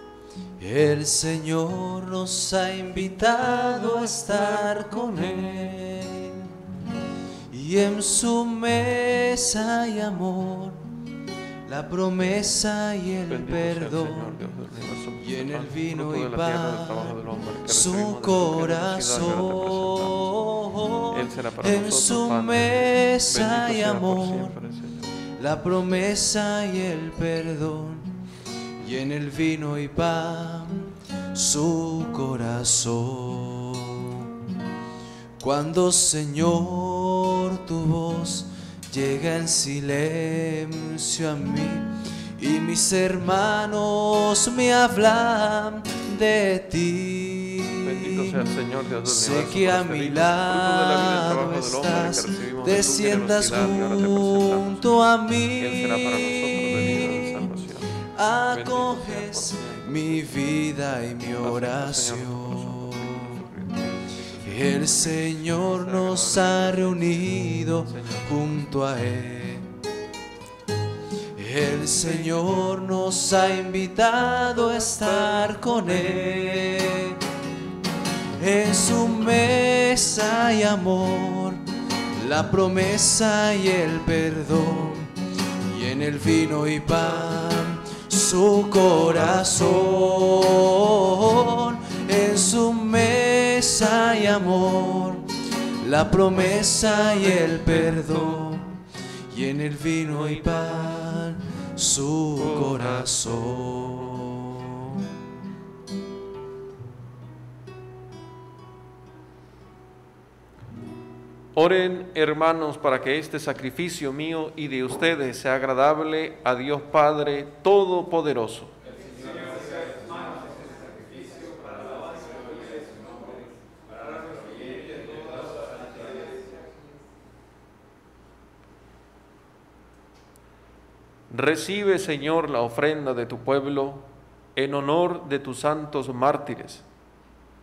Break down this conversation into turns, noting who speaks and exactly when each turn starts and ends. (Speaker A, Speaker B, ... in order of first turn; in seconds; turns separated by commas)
Speaker A: 0.6-6.5, Speaker B: 3.5-5.5, Speaker A: 7.5-10.9, Speaker A: 11.7-14.4, Speaker B: 13.3-20.3, Speaker A: 15.2-24.6, Speaker B: 21.1-25.1, Speaker A: 25.4-28.2, Speaker A: 28.8-34.3, Speaker A: 35.4-48.3, Speaker B: 47.8-54.9, Speaker A: 49.1-57.5, Speaker B: 55.6-57.9, Speaker A: 58.1-63.4, Speaker B: 58.5-60.4, Speaker B: 61.4-68.3, Speaker A: 64.4-69.7, Speaker A: 71.4-77.2, Speaker B: 74.6-76.3, Speaker A: 78.4-81.6, Speaker A: 82.2-95.3, Speaker A: 95.8-98.8, Speaker B: 96.8-98.5, Speaker A: 99.3-105.0, Speaker B: 100.1-101.1, Speaker B: 102.4-104.2, Speaker B: 111.5-118.7, Speaker B: 131.3-136.8